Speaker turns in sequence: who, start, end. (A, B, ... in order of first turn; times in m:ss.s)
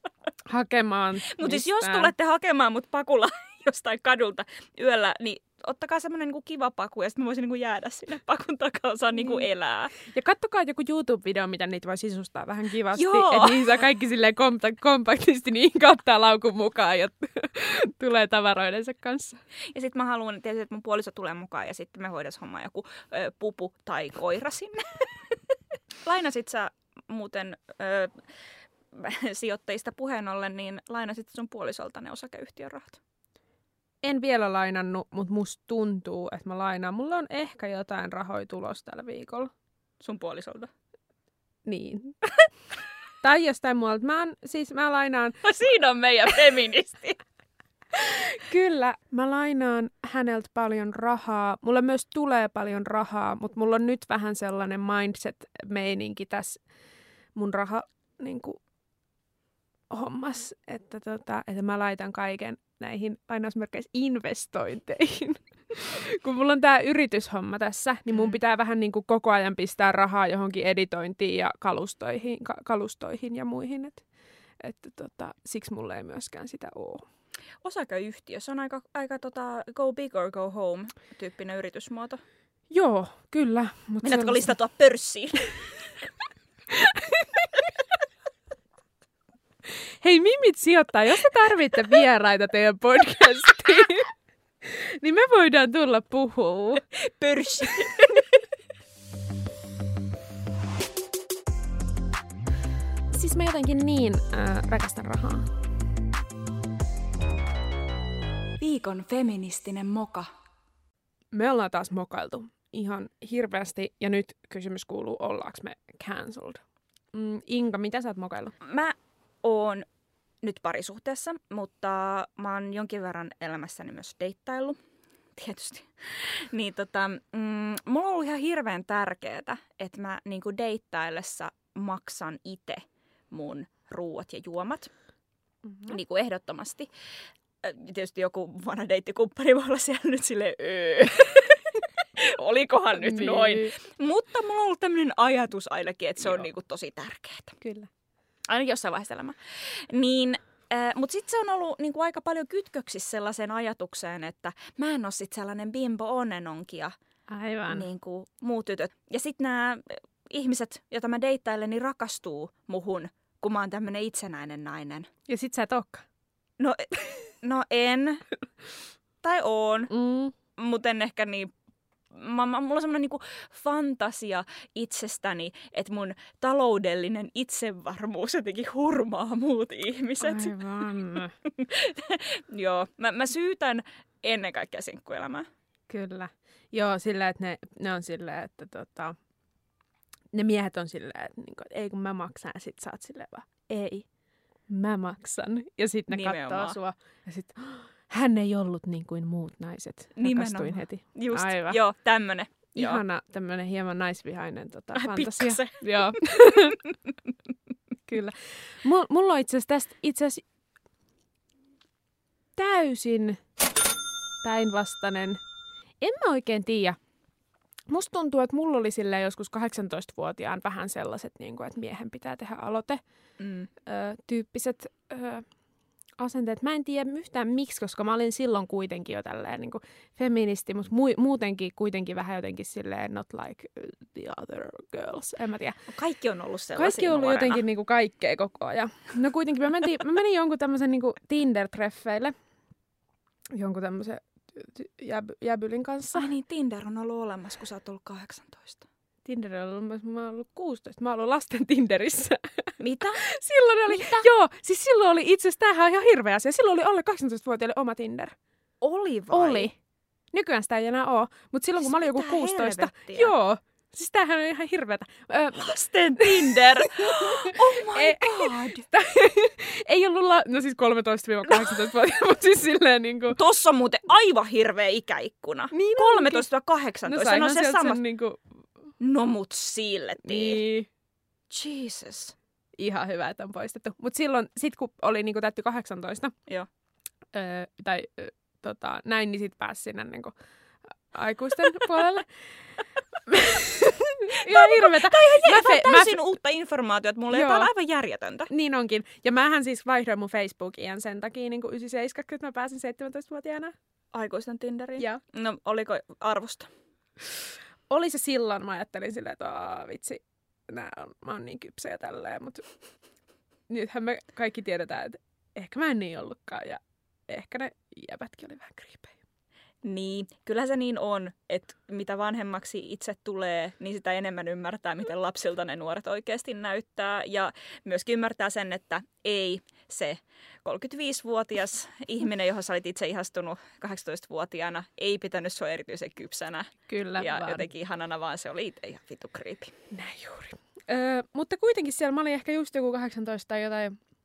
0:00.5-0:02.1 A
0:01.4-0:09.9 B
0:09.1-0:09.4 A
0:10.0-0:19.4 A
0:12.9-0:13.6 B
0:19.7-0:25.3 B
0:26.0-0:28.2 B
0:28.9-0:33.0 B
0:34.0-0:39.5 A
0:40.0-0:40.7 B
0:41.6-0:42.2 A
0:43.2-0:45.4 A
0:45.4-0:47.2 B
0:48.0-0:56.6 A
0:57.3-0:58.6 A
0:59.9-1:14.0 A
1:08.1-1:08.4 B
1:14.6-1:17.0 A
1:17.6-1:22.2 B
1:22.7-1:24.5 A
1:24.0-1:25.7 B
1:26.8-1:27.5 A
1:30.0-1:34.1 A
1:35.0-1:36.8 A
1:37.1-1:38.2 B
1:43.1-1:45.5 A
1:48.6-1:50.3 B
1:51.3-1:56.6 A
1:57.1-1:58.5 A
1:58.6-1:59.8 B
2:00.4-2:04.8 B
2:05.4-2:14.9 B
2:15.6-2:16.0 A
2:15.9-2:16.9 B
2:17.6-2:27.6 B
2:23.0-2:23.7 A
2:27.6-2:27.9 A
2:28.5-2:36.9 B
2:37.3-2:37.9 A
2:37.7-2:45.1 B
2:45.3-2:46.0 A
2:46.6-2:48.2 B
2:49.2-2:49.9 B
2:49.9-2:50.3 A
2:50.6-2:51.5 B
2:52.1-3:00.9 B
3:00.2-3:01.3 A
3:01.4-3:05.5 B
3:05.9-3:09.2 A
3:10.3-3:14.1 A
3:14.7-3:21.8 A
3:16.1-3:16.8 B
3:20.2-3:23.0 B
3:22.7-3:26.8 A
3:25.0-3:26.0 B
3:28.1-3:30.4 A
3:32.6-3:33.4 A
3:34.4-3:35.4 A
3:36.0-3:37.0 A
3:37.9-3:43.0 A
3:43.4-3:43.7 B
3:43.8-3:45.5 A
3:46.2-3:55.8 A
3:55.9-3:57.6 B
3:56.8-4:02.3 A
4:03.5-4:06.3 A
4:06.1-4:08.8 B
4:09.2-4:18.3 A
4:12.8-4:13.3 B
4:13.8-4:14.2 B
4:18.8-4:19.7 B
4:19.3-4:19.7 A
4:20.3-4:33.4 A
4:21.8-4:23.3 B
4:25.6-4:28.8 B
4:33.3-4:38.0 B
4:35.7-4:36.4 A
4:37.0-4:38.4 A
4:39.0-4:40.6 B
4:40.2-4:40.9 A
4:41.5-4:42.3 B
4:42.8-4:46.3 A
4:47.3-4:50.3 A
4:51.1-4:52.3 A
4:53.3-4:56.3 A
4:54.5-4:58.5 B
4:57.3-4:57.7 A
4:58.5-5:03.7 A
5:04.1-5:06.7 B
5:07.9-5:12.6 A
5:13.7-5:19.1 A
5:19.8-5:39.7 B
5:36.9-5:37.7 A
5:39.9-5:44.0 A